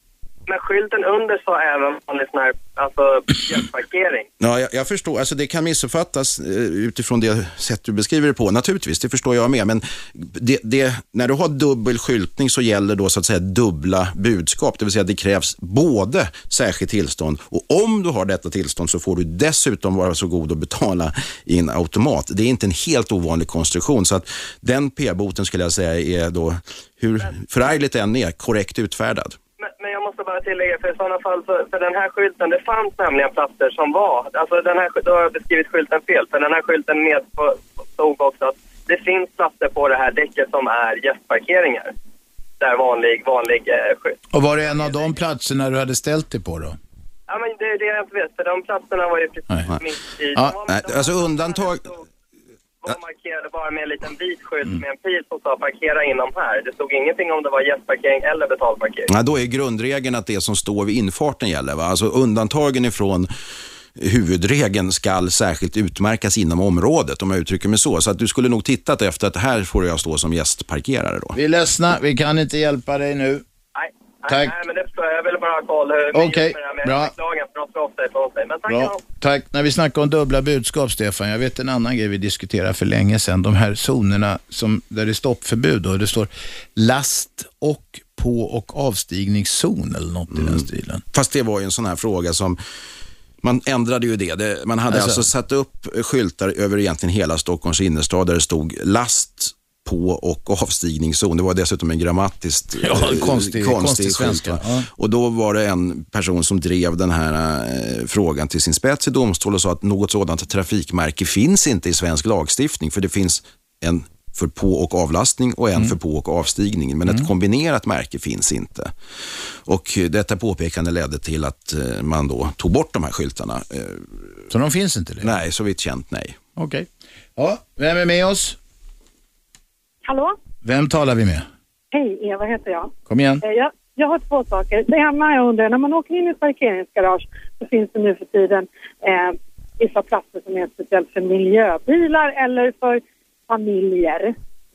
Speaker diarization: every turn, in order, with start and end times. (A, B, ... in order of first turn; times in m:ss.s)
0:00.5-0:04.2 A
0:04.4-0:29.4 B
0:29.6-0:41.9 A
0:42.6-0:44.2 A
0:44.3-0:46.8 C
0:44.8-0:45.1 A
0:47.3-0:51.8 A
0:50.7-0:51.9 B
0:52.8-0:59.1 A
0:59.1-1:03.3 B
1:04.0-1:11.4 B
1:11.3-1:13.4 C
1:13.7-1:19.0 A
1:14.3-1:14.6 C
1:16.1-1:17.1 C
1:18.7-1:31.0 C
1:30.3-1:30.6 B
1:31.1-1:32.6 B
1:33.4-1:58.9 B
1:34.9-1:35.2 C
1:42.8-1:44.9 C
1:59.7-2:04.2 B
2:04.5-2:05.3 C
2:05.2-2:06.4 B
2:06.6-2:08.6 C
2:10.0-2:10.3 D
2:10.6-2:11.4 C
2:11.9-2:12.9 D
2:13.1-2:13.4 C
2:13.4-2:24.3 D